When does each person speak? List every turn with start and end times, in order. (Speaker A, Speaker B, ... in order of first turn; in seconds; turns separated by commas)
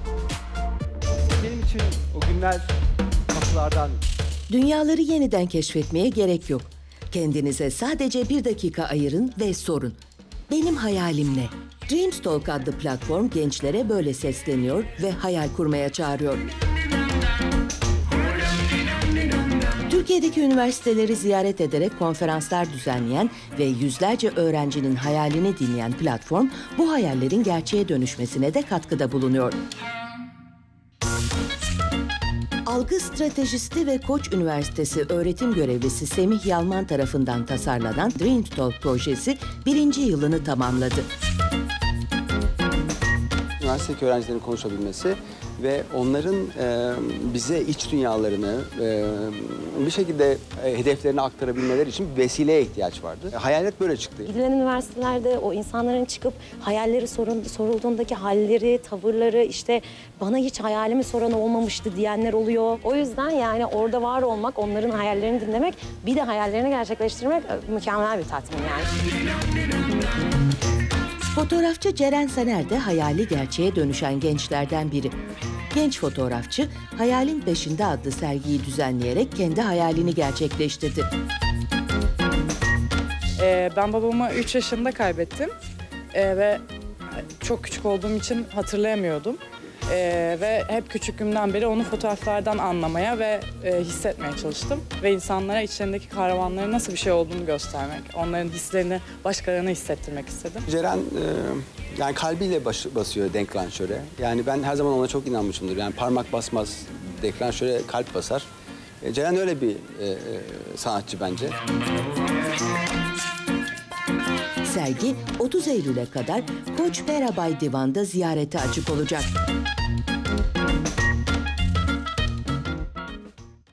Speaker A: 1.3-2.7, Speaker A: 3.3-4.0, Speaker B: 4.5-10.0, Speaker B: 10.5-16.4, Speaker B: 19.9-29.6, Speaker B: 32.7-41.1, Speaker A: 43.6-54.3, Speaker C: 54.2-68.9, Speaker B: 71.3-75.1, Speaker B: 75.7-81.1, Speaker D: 83.4-85.5, Speaker D: 86.1-86.6, Speaker D: 87.4-100.7, Speaker A: 100.7-108.5, Speaker A: 109.0-111.6, Speaker B: 114.7-119.3